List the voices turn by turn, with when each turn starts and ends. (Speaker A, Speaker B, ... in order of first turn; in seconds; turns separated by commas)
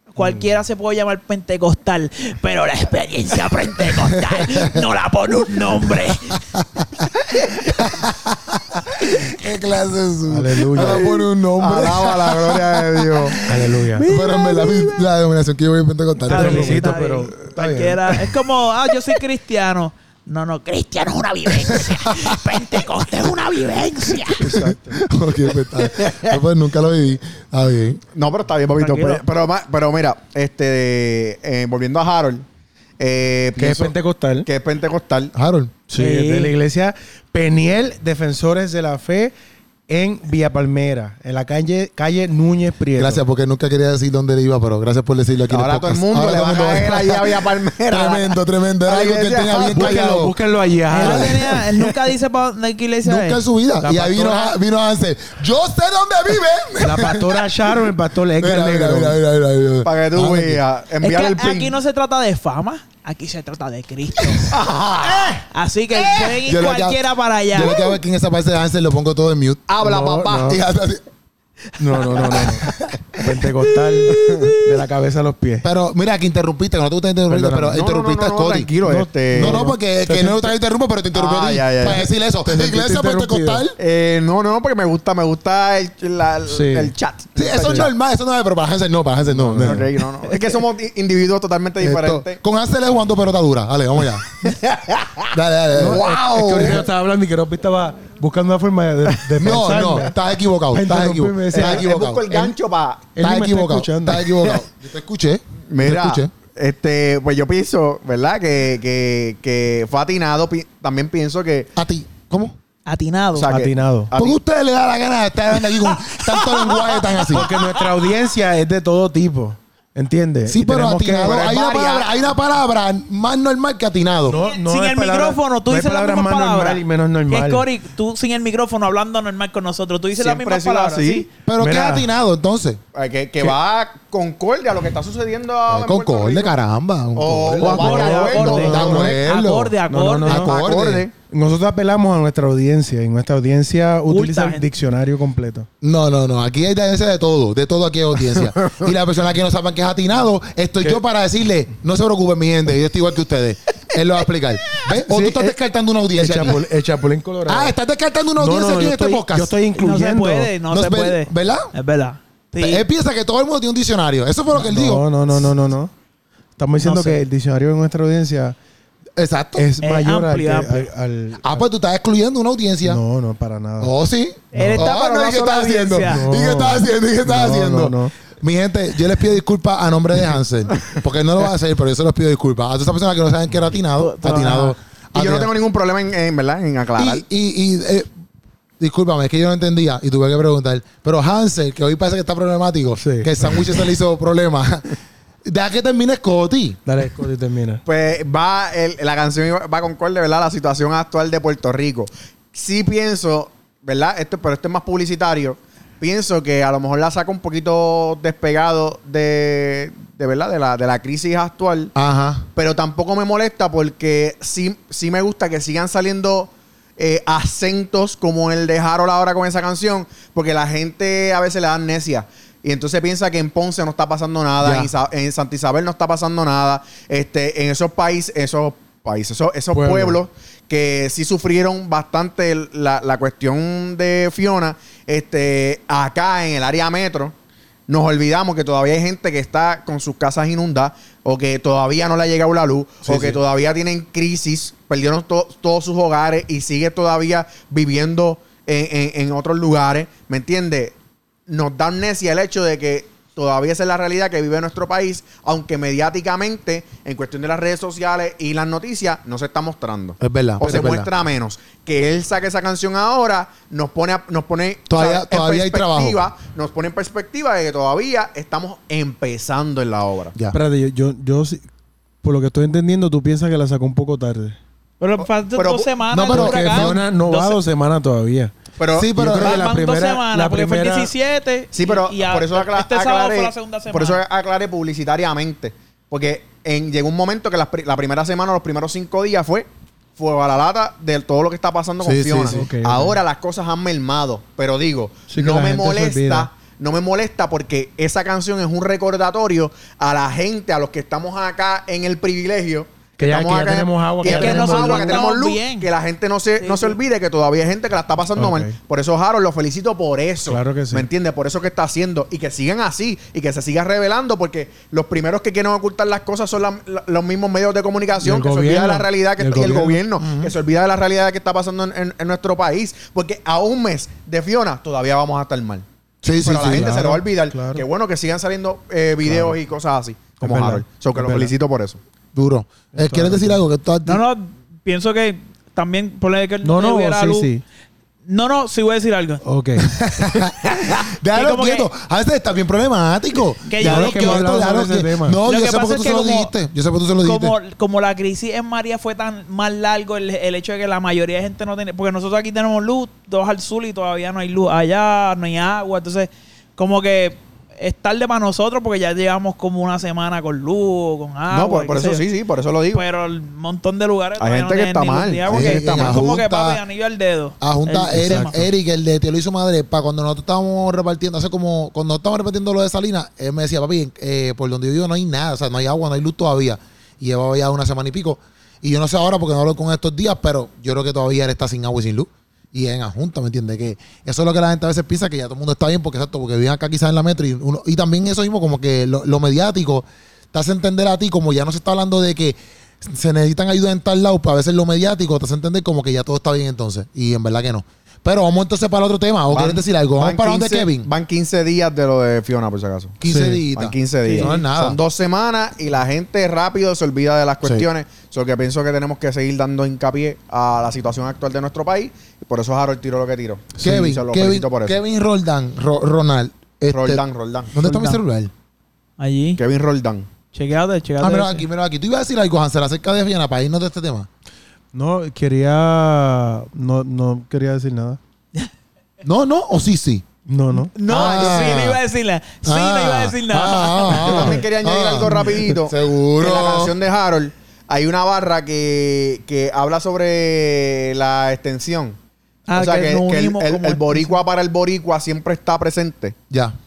Speaker A: 0.1-6.4, Speaker B: 0.2-0.5, Speaker C: 3.9-4.8, Speaker C: 5.9-7.1, Speaker A: 7.3-7.9, Speaker C: 7.7-17.0, Speaker B: 10.3-11.1, Speaker D: 10.8-13.4, Speaker B: 13.5-14.1, Speaker A: 13.9-15.1, Speaker B: 16.3-18.2, Speaker A: 16.3-24.5, Speaker C: 21.7-22.7, Speaker B: 24.4-25.0, Speaker C: 24.4-28.0, Speaker D: 25.8-26.4, Speaker D: 28.1-32.5, Speaker A: 28.8-29.2, Speaker D: 33.0-35.3, Speaker B: 33.6-34.5, Speaker C: 35.4-35.7, Speaker B: 35.9-39.3, Speaker A: 36.0-36.5, Speaker B: 39.9-43.2, Speaker C: 43.0-50.4, Speaker D: 45.5-50.0, Speaker B: 49.7-51.6, Speaker A: 50.9-53.4, Speaker C: 50.9-51.6, Speaker C: 53.0-57.5, Speaker B: 53.8-54.5, Speaker B: 56.8-59.2, Speaker C: 58.4-60.6, Speaker D: 59.8-61.8, Speaker B: 60.2-60.6, Speaker A: 61.0-67.8, Speaker D: 64.5-65.4, Speaker D: 65.9-66.3, Speaker C: 66.4-69.7, Speaker D: 69.7-70.6, Speaker B: 69.8-70.6, Speaker C: 70.3-71.0, Speaker B: 71.8-75.7, Speaker D: 72.3-72.7, Speaker D: 74.1-74.6, Speaker A: 74.2-74.5, Speaker C: 75.6-78.7, Speaker B: 77.3-77.8, Speaker D: 77.6-79.6, Speaker B: 78.8-80.5, Speaker C: 79.3-83.8, Speaker D: 81.1-82.1, Speaker B: 82.4-83.7, Speaker D: 83.8-87.9, Speaker B: 86.5-86.9, Speaker C: 87.4-89.9, Speaker B: 87.6-87.9, Speaker D: 89.3-92.4, Speaker B: 89.6-89.9, Speaker C: 91.8-94.3, Speaker D: 94.3-96.8, Speaker C: 95.3-96.8, Speaker B: 95.7-100.2, Speaker D: 99.3-99.6, Speaker C: 99.4-102.6, Speaker B: 100.7-101.9, Speaker D: 101.5-103.1, Speaker B: 103.2-104.6, Speaker C: 103.2-106.3, Speaker D: 105.7-111.7, Speaker C: 111.8-112.5, Speaker A: 112.9-113.5, Speaker D: 113.3-114.4, Speaker B: 113.5-114.1, Speaker C: 114.2-117.5, Speaker A: 115.8-117.2, Speaker B: 117.3-121.5, Speaker C: 120.5-124.4, Speaker D: 121.2-122.2, Speaker B: 124.3-127.7, Speaker A: 124.3-131.3, Speaker D: 130.1-131.3, Speaker C: 131.5-132.8, Speaker B: 131.6-132.1, Speaker D: 132.9-136.5, Speaker C: 135.7-139.8, Speaker D: 137.2-139.1, Speaker B: 137.5-139.1, Speaker A: 137.7-140.4, Speaker B: 139.9-140.5, Speaker C: 140.3-141.1, Speaker D: 140.3-141.1, Speaker B: 141.3-145.7, Speaker A: 144.1-144.7, Speaker C: 145.8-156.6, Speaker B: 154.9-155.6, Speaker B: 156.1-157.8, Speaker C: 157.5-159.6, Speaker B: 158.4-160.5, Speaker A: 159.7-162.8, Speaker C: 160.7-161.7, Speaker C: 162.6-165.1, Speaker B: 164.5-165.9, Speaker B: 166.6-168.6, Speaker A: 166.8-167.2, Speaker C: 169.2-169.7, Speaker B: 169.6-171.7, Speaker A: 169.8-170.9, Speaker C: 171.4-173.0, Speaker B: 172.8-173.9, Speaker C: 173.8-185.5, Speaker A: 174.5-176.3, Speaker B: 174.5-174.9, Speaker B: 176.0-178.2, Speaker A: 184.0-184.8, Speaker D: 185.1-187.2, Speaker C: 187.0-188.1, Speaker C: 188.8-196.8, Speaker B: 193.0-193.7, Speaker B: 196.9-197.8, Speaker D: 197.8-211.9, Speaker C: 211.9-212.5, Speaker D: 212.6-237.3, Speaker C: 224.6-224.9, Speaker B: 229.7-230.2, Speaker D: 237.9-251.0, Speaker C: 243.1-243.4, Speaker D: 251.5-270.4, Speaker C: 260.2-261.1, Speaker C: 264.9-266.2, Speaker B: 270.5-271.7, Speaker B: 272.2-274.6, Speaker A: 275.0-277.6, Speaker D: 275.2-275.9, Speaker C: 276.1-277.0, Speaker B: 276.3-278.6, Speaker D: 278.8-279.1, Speaker C: 278.9-279.6, Speaker B: 279.1-281.1, Speaker A: 279.4-284.2, Speaker D: 281.7-325.9, Speaker C: 292.0-292.7, Speaker B: 292.5-293.2, Speaker B: 295.3-296.5, Speaker B: 303.2-305.2, Speaker A: 304.2-305.9, Speaker A: 306.6-307.0, Speaker B: 308.4-308.8, Speaker B: 310.4-311.1, Speaker B: 318.2-320.0, Speaker C: 320.2-320.5, Speaker C: 326.2-326.9, Speaker D: 326.4-332.0, Speaker B: 326.6-327.8, Speaker B: 329.2-329.6, Speaker B: 330.4-331.5, Speaker C: 332.4-334.2, Speaker B: 332.9-333.6, Speaker A: 334.1-337.5, Speaker B: 336.6-337.6, Speaker A: 338.3-339.4, Speaker B: 339.4-339.9, Speaker C: 339.8-347.6, Speaker A: 340.6-341.9, Speaker A: 343.6-344.6, Speaker B: 343.8-345.4, Speaker A: 345.4-346.5, Speaker A: 347.2-362.2, Speaker D: 361.5-363.0, Speaker A: 362.9-368.6, Speaker D: 364.4-366.2, Speaker C: 365.5-366.8, Speaker C: 367.6-401.1, Speaker B: 368.1-368.6, Speaker D: 399.5-403.2, Speaker C: 403.2-405.0, Speaker B: 403.2-403.6, Speaker D: 403.8-415.0, Speaker B: 404.3-404.6, Speaker C: 413.8-417.2, Speaker D: 416.9-417.8, Speaker C: 417.7-418.5, Speaker A: 417.8-418.2, Speaker A: 419.2-419.6, Speaker D: 419.6-420.3, Speaker A: 420.5-421.7, Speaker C: 421.2-424.3, Speaker B: 424.9-428.2, Speaker C: 429.2-430.2, Speaker B: 430.5-430.9, Speaker A: 430.9-434.3, Speaker C: 431.1-432.0, Speaker D: 431.1-432.0, Speaker C: 432.6-436.9, Speaker D: 434.1-442.2, Speaker B: 434.3-434.5, Speaker A: 442.7-444.4, Speaker D: 442.7-446.4, Speaker C: 446.5-446.8